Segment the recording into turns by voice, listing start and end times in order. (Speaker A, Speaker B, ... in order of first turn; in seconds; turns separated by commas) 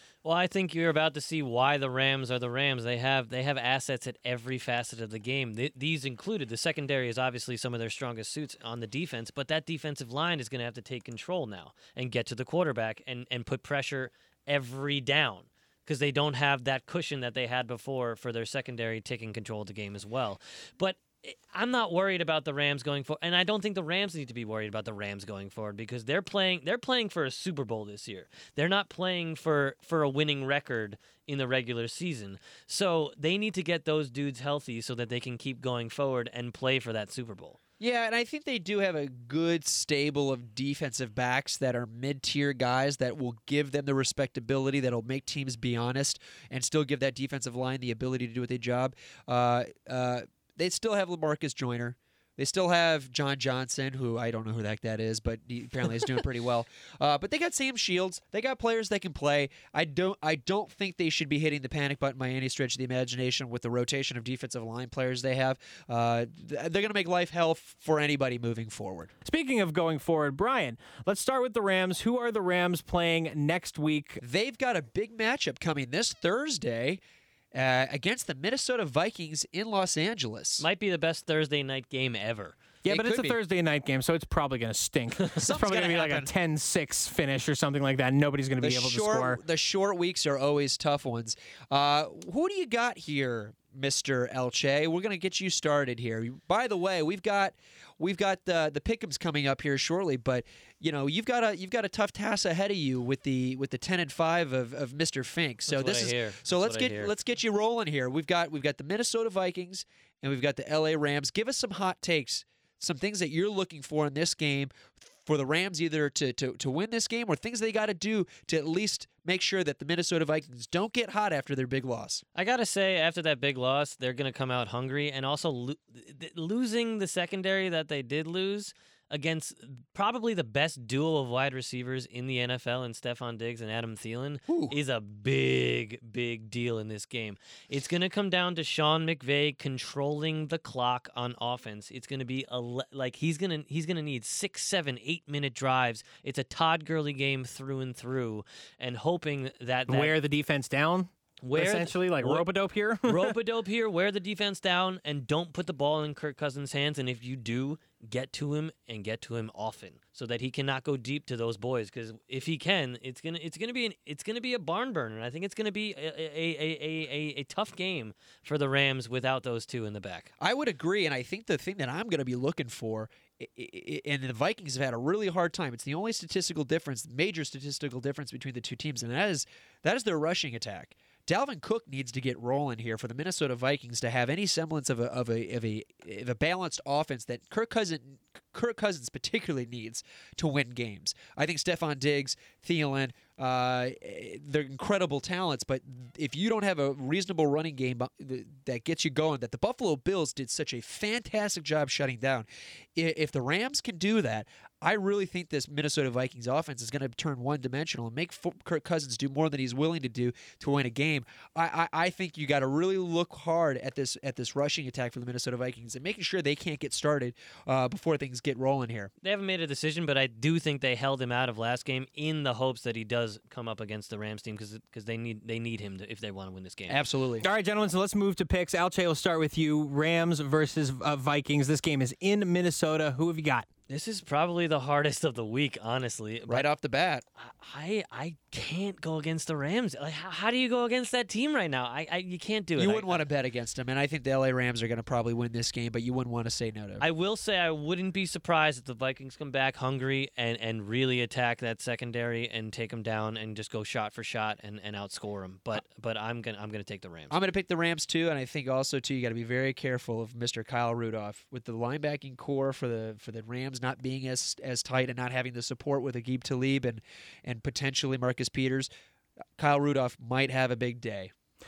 Speaker A: 0.2-37.6, Speaker B: 37.8-69.1, Speaker C: 69.2-74.2, Speaker B: 74.2-77.0, Speaker B: 77.5-80.6, Speaker A: 80.6-82.6, Speaker C: 82.8-89.4, Speaker B: 82.8-83.4, Speaker B: 85.4-86.3, Speaker B: 88.6-122.2, Speaker A: 105.7-107.1, Speaker A: 122.3-150.1, Speaker B: 134.5-134.7, Speaker C: 149.9-153.3, Speaker A: 151.4-152.5, Speaker A: 153.0-170.3, Speaker B: 170.4-219.1, Speaker A: 219.2-227.0, Speaker B: 226.9-227.4, Speaker C: 227.4-233.7, Speaker A: 233.9-236.7, Speaker B: 236.5-237.2, Speaker A: 237.4-243.2, Speaker B: 242.8-247.0, Speaker A: 247.0-257.4, Speaker B: 257.3-268.9, Speaker B: 269.6-271.3